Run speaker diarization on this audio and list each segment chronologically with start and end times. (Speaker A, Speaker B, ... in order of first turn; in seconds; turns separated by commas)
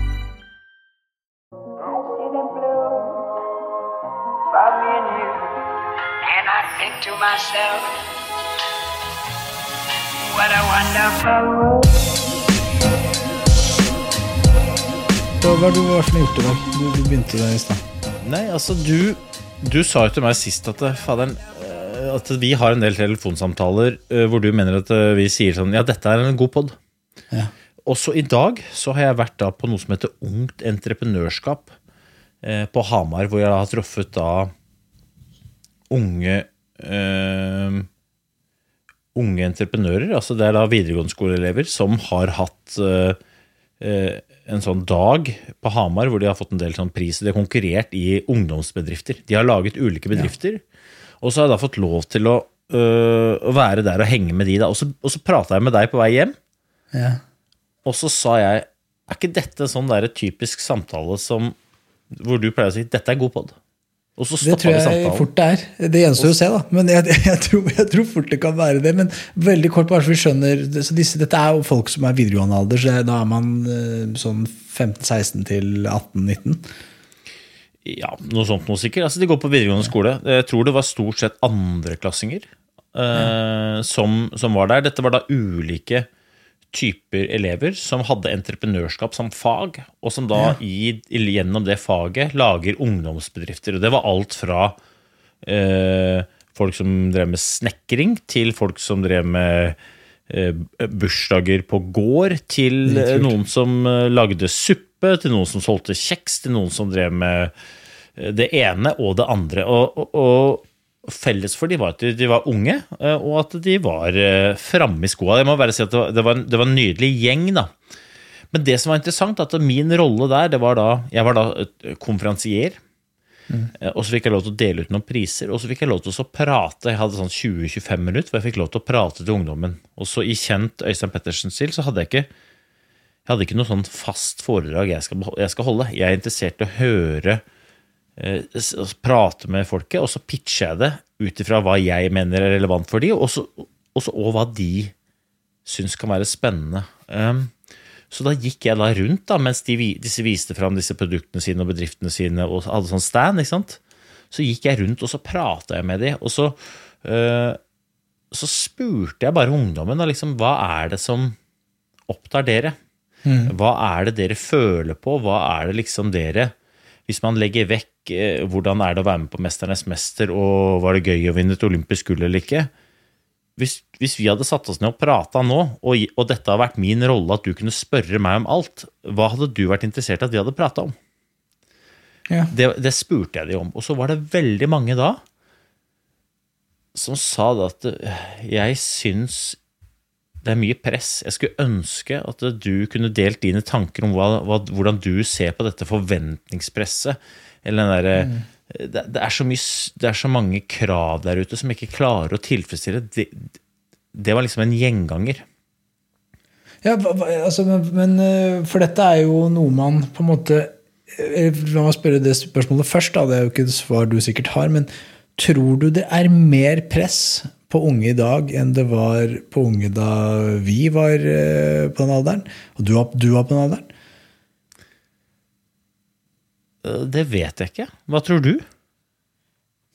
Speaker A: 1.8-3.1, Speaker A: 4.5-5.5, Speaker A: 6.2-8.0, Speaker A: 10.3-11.9, Speaker B: 15.4-17.8, Speaker C: 18.2-26.8, Speaker C: 27.8-31.7, Speaker C: 32.4-34.5, Speaker C: 35.9-37.9, Speaker C: 39.1-43.2, Speaker C: 43.8-50.6, Speaker C: 51.2-56.4, Speaker B: 56.9-57.2, Speaker C: 57.8-61.5, Speaker C: 62.1-63.5, Speaker C: 64.2-65.3, Speaker B: 64.4-76.6, Speaker C: 77.8-86.1, Speaker C: 86.7-94.8, Speaker C: 95.4-99.8, Speaker C: 100.3-107.5, Speaker B: 102.8-103.3, Speaker C: 108.2-117.7, Speaker C: 118.5-122.8, Speaker C: 123.8-132.3, Speaker C: 133.2-137.4, Speaker C: 138.2-144.9, Speaker C: 145.6-147.5, Speaker C: 148.1-153.8, Speaker C: 154.3-157.6, Speaker C: 158.3-161.3, Speaker C: 162.1-162.8, Speaker B: 163.2-163.5, Speaker C: 163.4-166.5, Speaker C: 167.1-172.7, Speaker C: 173.6-180.9, Speaker C: 182.5-185.2, Speaker C: 186.9-189.6, Speaker C: 190.4-203.5, Speaker B: 198.2-198.4, Speaker C: 204.1-205.4, Speaker B: 206.8-223.9, Speaker C: 226.8-228.6